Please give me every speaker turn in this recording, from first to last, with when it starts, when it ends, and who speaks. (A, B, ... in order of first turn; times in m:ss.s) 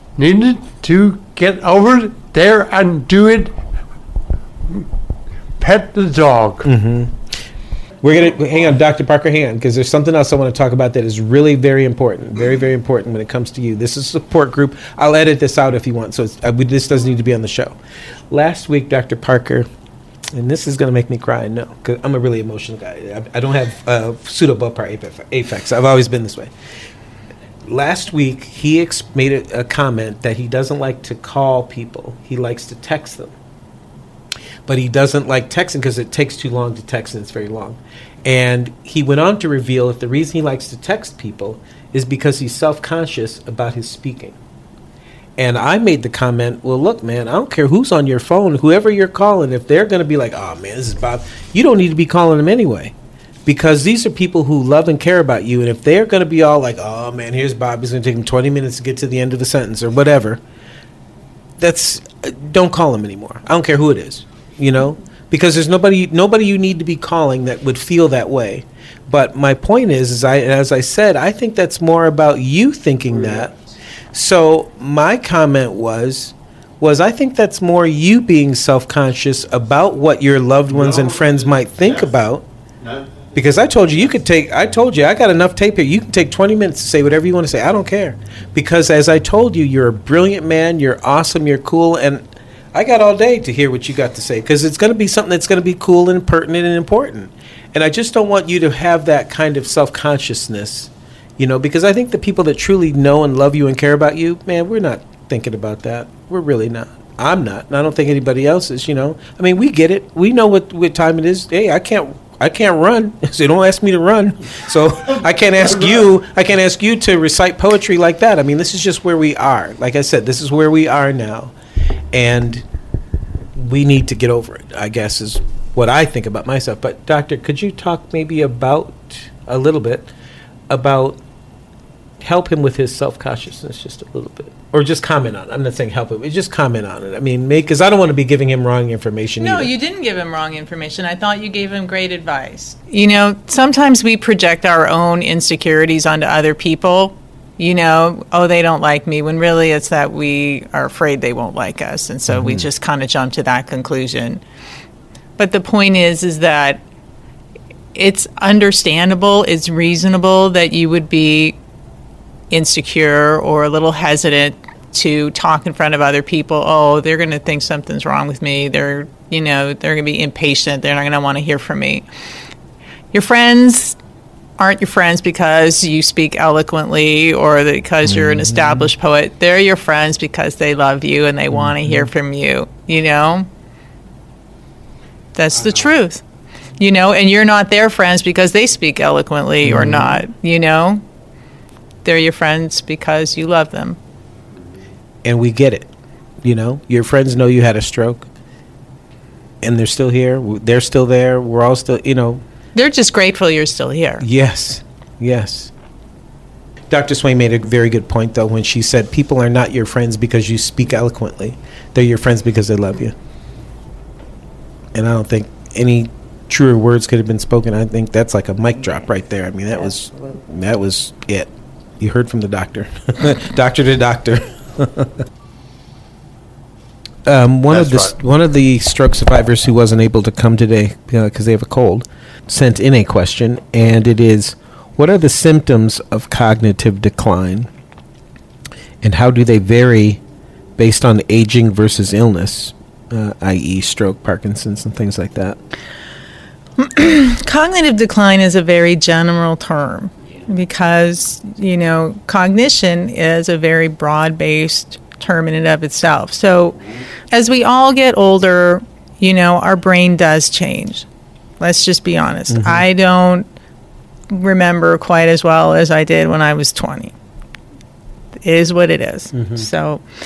0:00.2-0:03.5 A
0:05.6-0:06.7 A
0:06.6-0:07.2 B
0:08.0-0:17.8 B
0:18.3-0:19.7 B
0:20.3-0:26.5 B
0:27.7-0:33.3 B
0:34.7-0:44.4 B
0:45.4-0:52.9 B
0:53.4-1:00.4 B
1:01.6-1:13.5 B
1:13.1-1:13.5 A
1:14.1-1:22.4 B
1:20.7-1:22.1 A
1:22.8-1:23.8 A
1:23.3-2:01.5 B
2:02.1-2:02.6 B
2:03.5-2:10.1 B
2:10.7-2:11.2 B
2:12.2-2:19.7 B
2:19.4-2:34.4 C
2:32.3-2:32.6 B
2:35.4-2:36.8 C
2:37.9-2:41.6 C
2:42.5-2:52.0 C
2:53.1-2:54.0 C
2:54.6-3:03.5 C
2:58.0-2:58.9 B
3:01.5-3:02.1 B
3:05.3-3:06.2 C
3:06.8-3:11.0 C
3:09.6-3:10.2 B
3:12.0-3:14.0 C
3:15.2-3:15.9 B
3:16.4-3:18.3 B
3:19.6-3:22.4 B
3:22.7-3:24.2 C
3:24.2-3:25.7 B
3:26.9-3:33.1 B
3:34.9-3:41.5 B
3:42.0-3:45.2 B
3:47.2-3:57.7 B
3:47.7-3:48.1 A
3:59.0-4:00.2 B
4:00.8-4:05.6 B
4:06.8-4:16.8 C
4:17.3-4:21.0 C
4:21.6-4:23.5 C
4:22.5-4:22.8 B
4:24.3-4:27.1 C
4:28.4-4:30.0 C
4:29.3-4:29.7 B